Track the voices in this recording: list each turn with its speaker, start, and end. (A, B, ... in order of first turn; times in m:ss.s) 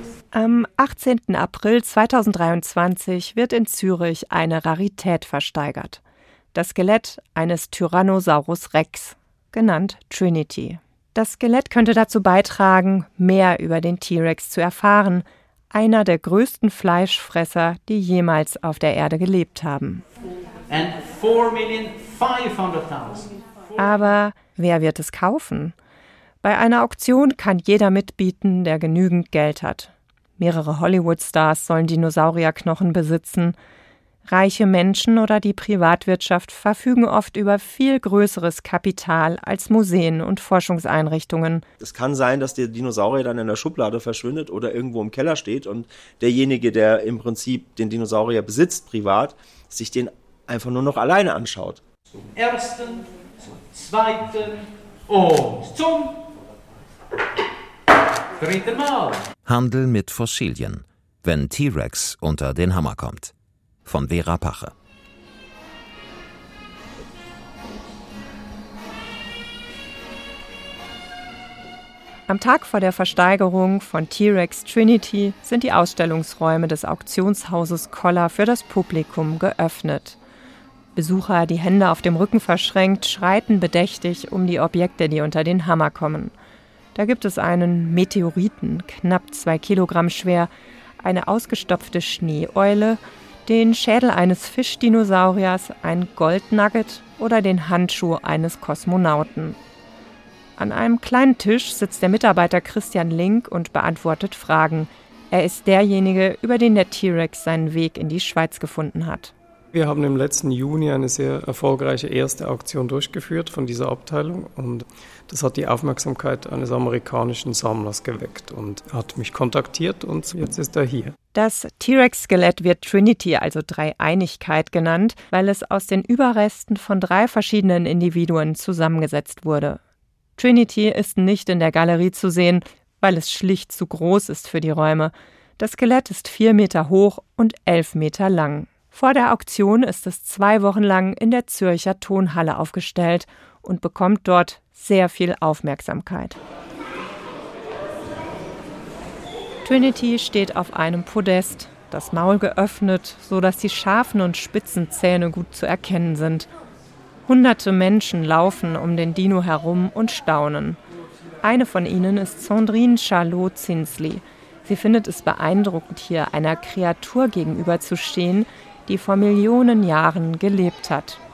0:00.3-0:06.0 A
0:06.5-0:20.0 A
0:20.7-0:23.8 B
0:23.8-0:25.7 A
0:26.4-0:33.6 A
0:34.2-0:41.6 A
0:41.8-0:51.8 C
0:52.1-0:56.3 B
0:58.4-0:59.2 B
0:59.4-1:03.3 D
1:03.8-1:04.7 D
1:12.3-1:20.2 A
1:21.0-1:26.3 A
1:26.9-1:30.5 A
1:31.0-1:39.6 A
1:40.6-1:49.3 A
1:49.7-2:01.1 E
2:01.3-2:09.8 A
2:10.4-2:26.4 A
2:29.6-2:36.5 A
2:37.2-2:40.8 A
2:41.4-2:51.2 A